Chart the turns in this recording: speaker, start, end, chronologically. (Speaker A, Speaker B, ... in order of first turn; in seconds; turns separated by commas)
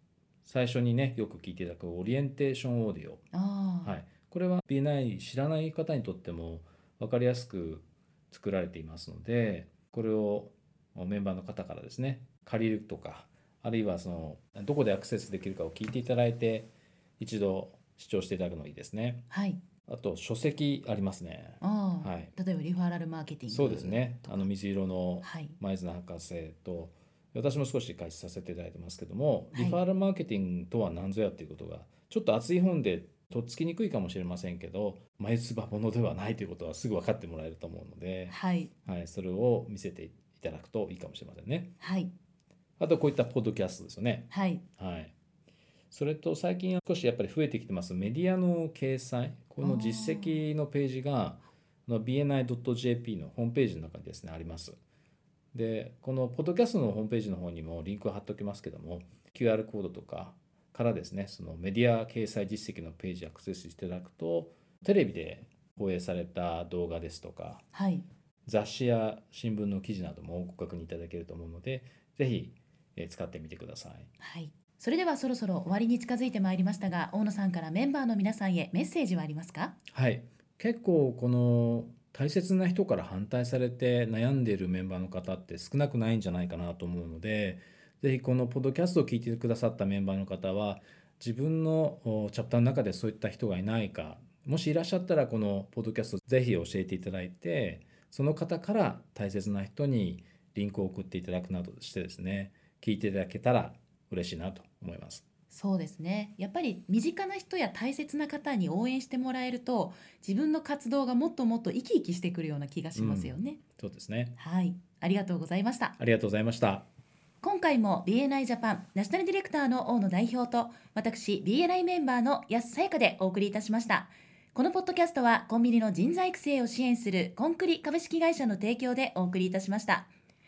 Speaker A: 0.4-3.2, Speaker B: 3.3-4.0, Speaker A: 3.8-19.2, Speaker B: 19.3-19.6, Speaker A: 19.8-22.3, Speaker B: 21.6-24.5, Speaker A: 23.5-41.7, Speaker B: 25.2-25.6, Speaker B: 29.5-29.8, Speaker B: 38.3-38.7, Speaker B: 41.8-42.1, Speaker A: 42.8-45.1, Speaker B: 44.3-44.6, Speaker A: 45.9-54.7, Speaker B: 49.6-50.4, Speaker A: 55.5-67.6, Speaker B: 67.7-68.0, Speaker A: 68.5-74.1, Speaker B: 74.2-79.8, Speaker A: 79.9-105.2, Speaker B: 105.5-113.6, Speaker A: 112.9-114.3, Speaker B: 114.4-116.0, Speaker A: 116.0-116.8, Speaker B: 117.4-130.1